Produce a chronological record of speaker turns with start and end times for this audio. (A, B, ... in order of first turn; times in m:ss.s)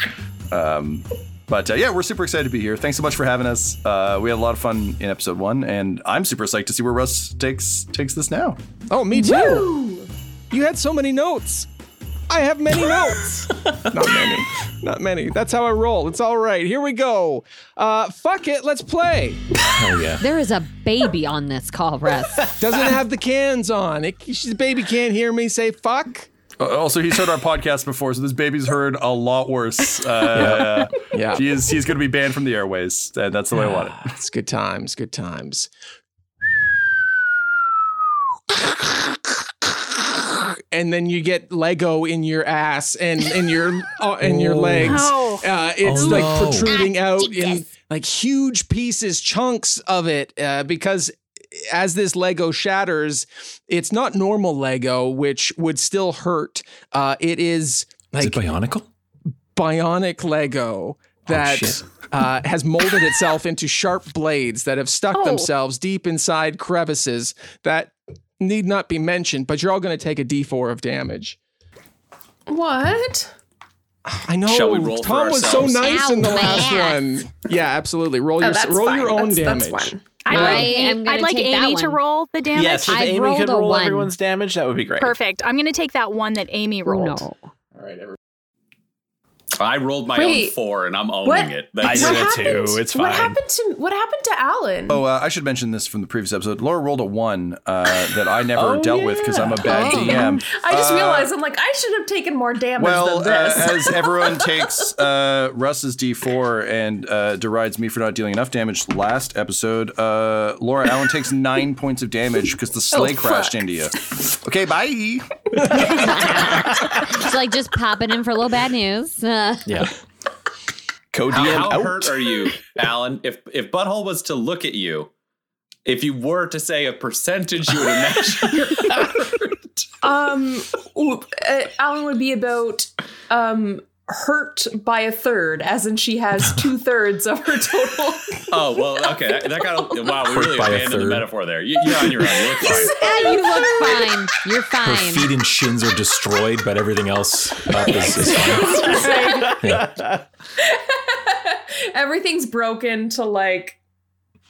0:00.5-0:08.6 A
0:08.9-0:09.7 B
0:09.1-0:10.1 C
0:10.5-0:11.7 B
0:12.3-0:19.4 B
0:19.7-0:20.2 D
0:20.2-0:22.5 E
0:22.6-0:26.3 B
0:26.6-0:34.0 A
0:30.3-0:31.4 B
0:30.4-0:30.7 D
0:34.0-0:35.7 B
0:38.6-0:39.3 B
0:39.9-0:58.4 B
0:44.2-0:45.1 D
0:44.8-0:45.4 F
0:45.8-0:46.7 D
0:46.2-0:47.6 E
0:58.2-0:58.9 D
0:59.5-1:11.4 B
1:01.3-1:01.9 D
1:05.1-1:05.5 F
1:12.5-1:13.3 C
1:14.1-1:19.9 B
1:14.4-1:15.9 G
1:15.8-1:17.2 E
1:18.4-1:20.7 C
1:20.2-1:23.3 F
1:20.3-1:22.0 E
1:22.5-1:25.2 H
1:22.9-1:24.1 E
1:25.0-1:27.3 F
1:26.8-1:27.5 E
1:27.8-1:28.1 B
1:29.6-1:32.8 G
1:30.1-1:30.5 C
1:31.2-1:35.0 C
1:31.8-1:33.4 H
1:34.9-1:41.3 A
1:38.5-1:39.5 H
1:39.0-1:45.0 C
1:42.8-1:55.2 A
1:52.9-1:53.6 C
1:55.8-1:59.7 E
2:01.1-2:02.2 H
2:01.3-2:05.1 G
2:05.8-2:09.0 G
2:10.0-2:20.2 C
2:18.5-2:23.0 G
2:20.2-2:21.3 D
2:22.0-2:24.2 C
2:22.9-2:25.3 E
2:24.8-2:30.0 D
2:27.9-2:29.7 C
2:29.3-2:30.1 H
2:30.6-2:33.8 C